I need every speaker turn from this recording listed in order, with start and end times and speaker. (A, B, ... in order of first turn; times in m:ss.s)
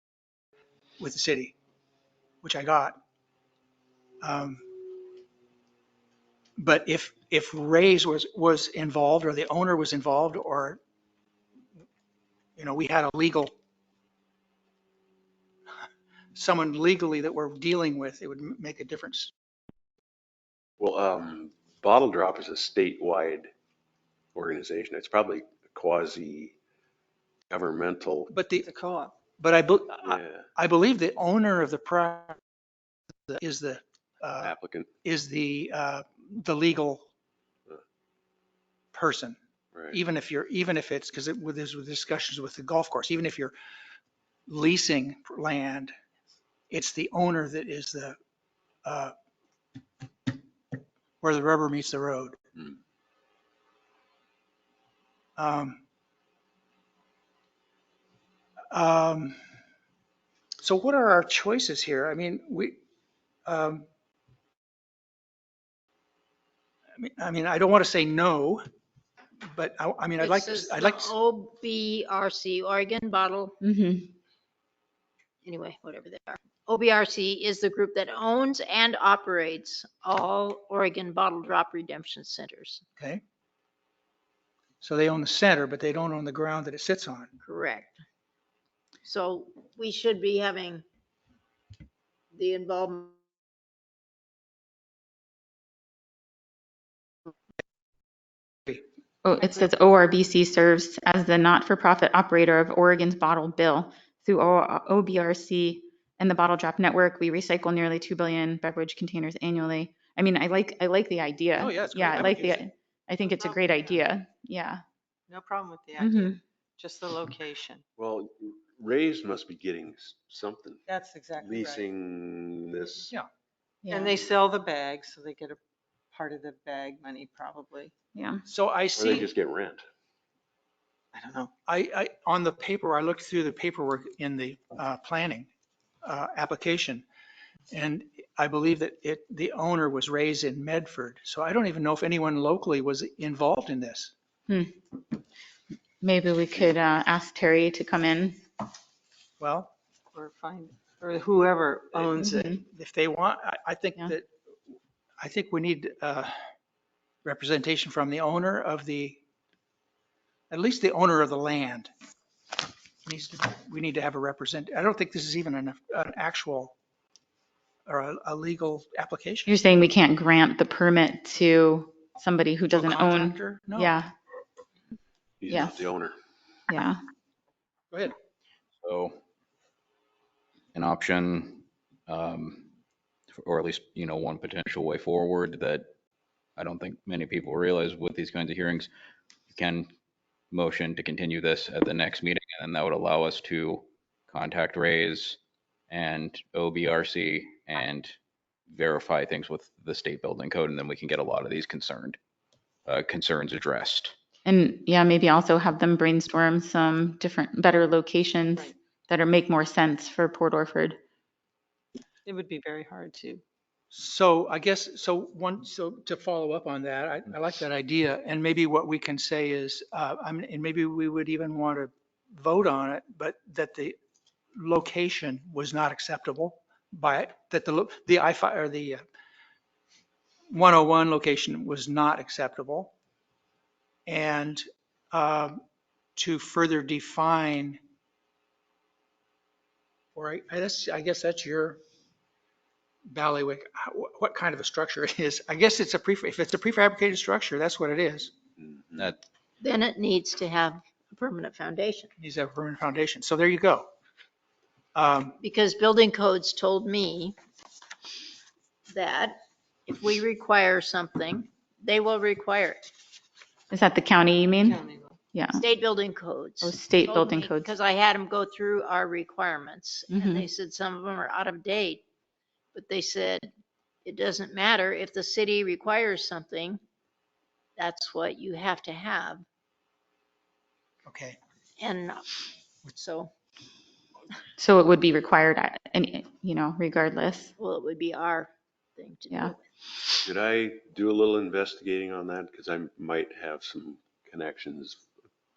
0:01.0-0:01.6 A
0:02.4-0:03.0 A
0:04.2-0:04.6 A
0:06.6-0:10.8 A
0:12.6-0:13.5 A
0:16.4-0:19.3 A
0:20.8-0:23.5 B
0:24.4-0:26.6 B
0:27.5-0:28.3 B
0:28.3-0:28.7 A
0:28.6-0:29.1 C
0:29.4-0:32.4 A
0:30.1-0:30.4 B
0:33.3-0:34.5 A
0:34.4-0:34.9 B
0:35.0-0:37.1 A
0:38.9-0:39.4 A
0:39.9-0:43.5 A
0:44.5-0:45.9 A
0:46.7-0:48.2 A
0:48.8-0:49.1 A
0:51.2-0:52.4 A
0:55.4-0:55.8 A
0:58.7-0:59.4 A
1:00.6-1:02.8 A
1:03.5-1:03.9 A
1:07.0-1:08.6 A
1:09.5-1:11.2 A
1:10.2-1:13.6 D
1:13.6-1:14.1 E
1:15.4-1:22.8 D
1:24.8-1:27.3 A
1:27.4-1:28.0 D
1:29.0-1:30.8 D
1:32.3-1:33.1 D
1:39.2-1:54.8 E
1:51.6-1:52.6 A
1:53.4-1:53.7 C
1:55.3-1:57.8 C
1:56.0-1:56.4 E
1:58.0-2:00.8 B
2:00.9-2:01.9 C
2:01.4-2:03.1 B
2:03.8-2:04.2 E
2:03.9-2:05.6 C
2:06.1-2:07.9 C
2:08.2-2:08.4 E
2:08.5-2:09.3 A
2:09.0-2:09.8 B
2:11.2-2:11.5 C
2:11.6-2:15.5 A
2:16.0-2:17.0 A
2:17.7-2:24.1 A
2:24.5-2:24.7 E
2:26.0-2:28.4 E
2:29.4-2:29.7 A
2:30.1-2:32.6 C
2:32.2-2:32.6 E
2:32.6-2:34.3 A
2:35.2-2:36.4 A
2:37.2-2:39.2 A
2:40.5-2:41.9 A
2:43.0-2:46.7 A
2:47.9-2:49.6 A
2:49.5-2:54.1 E
2:52.7-2:54.0 A
2:55.4-2:56.2 B
2:55.5-2:55.8 E
2:56.7-2:57.0 E
2:58.8-2:59.2 F
3:00.7-3:02.7 F
3:03.4-3:05.9 F
3:06.6-3:08.9 F
3:09.5-3:09.9 F
3:10.5-3:15.4 F
3:15.9-3:18.2 F
3:18.7-3:22.2 F
3:22.9-3:24.2 F
3:24.4-3:31.0 E
3:32.3-3:33.4 C
3:33.9-3:44.0 A
3:44.6-3:49.0 A
3:50.5-3:52.9 A
3:54.1-3:55.6 A
3:56.2-3:57.8 A
4:00.2-4:01.8 A
4:03.1-4:08.3 A
4:08.6-4:09.1 B
4:09.6-4:12.1 D
4:12.2-4:13.9 A
4:15.0-4:15.4 A
4:15.4-4:17.4 D
4:18.9-4:22.9 D
4:23.7-4:24.8 E
4:24.6-4:25.2 C
4:25.3-4:25.6 E
4:25.5-4:32.0 D
4:26.6-4:27.7 E
4:30.1-4:30.5 E
4:32.8-4:33.5 D
4:34.0-4:36.8 D
4:37.8-4:39.4 D
4:41.1-4:41.4 A
4:41.8-4:42.3 D
4:43.0-4:43.3 D
4:44.6-4:47.5 E
4:47.6-4:49.6 D
4:50.2-4:55.0 B